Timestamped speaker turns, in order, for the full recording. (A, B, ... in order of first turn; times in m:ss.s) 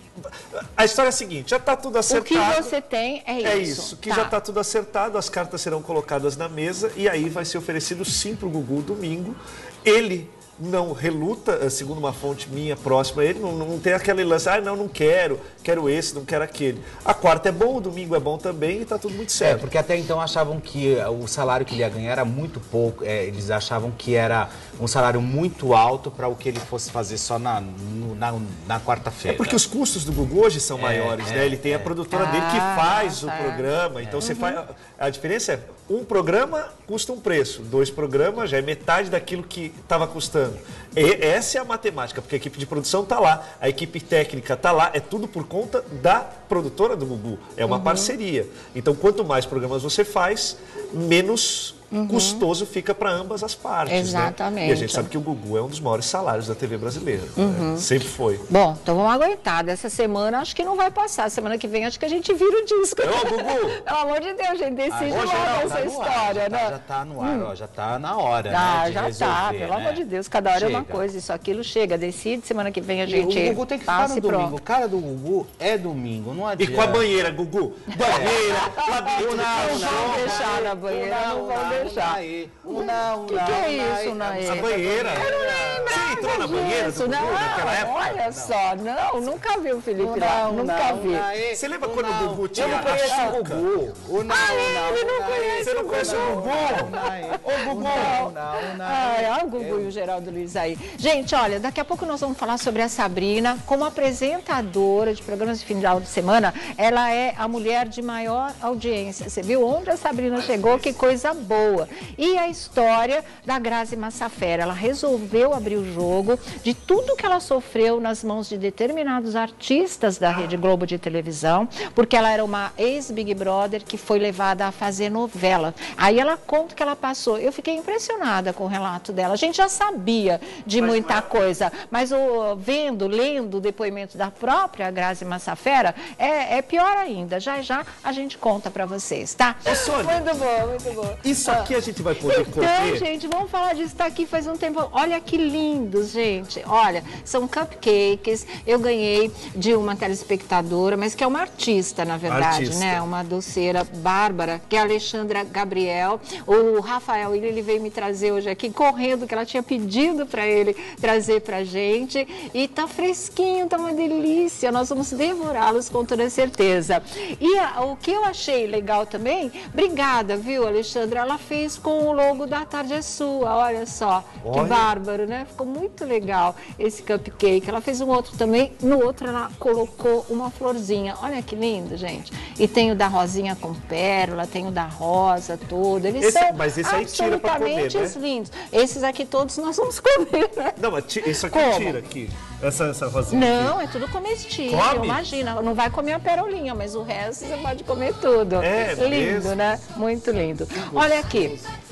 0:00.2-0:02.7 A
0:02.1-0:04.4 B
0:03.4-0:19.7 A
0:19.4-0:29.6 C
0:29.3-0:58.4 A
0:30.8-0:31.9 C
0:32.1-0:34.6 B
0:47.7-0:48.1 B
0:51.9-0:52.4 B
0:53.9-0:55.1 B
0:57.4-0:57.9 B
0:58.5-1:07.5 B
1:03.0-1:03.8 A
1:04.9-1:10.0 C
1:05.0-1:05.9 A
1:08.5-1:14.6 B
1:10.5-1:11.0 C
1:13.0-1:17.2 C
1:16.6-1:20.4 A
1:18.0-1:28.6 C
1:18.1-1:31.3 B
1:24.4-1:28.2 A
1:30.0-1:39.9 C
1:31.5-1:33.7 A
1:32.6-2:21.7 B
1:35.6-1:36.9 A
1:37.4-1:38.2 A
1:50.4-1:50.8 A
2:10.8-2:11.3 A
2:19.6-2:20.4 A
2:21.2-2:23.0 A
2:22.2-3:10.8 B
2:32.2-2:33.0 A
2:54.4-2:54.9 A
3:06.2-3:08.2 A
3:10.8-3:13.8 A
3:11.4-3:12.0 B
3:13.3-3:21.6 B
3:14.7-3:15.2 A
3:18.6-3:19.6 A
3:20.9-3:21.4 C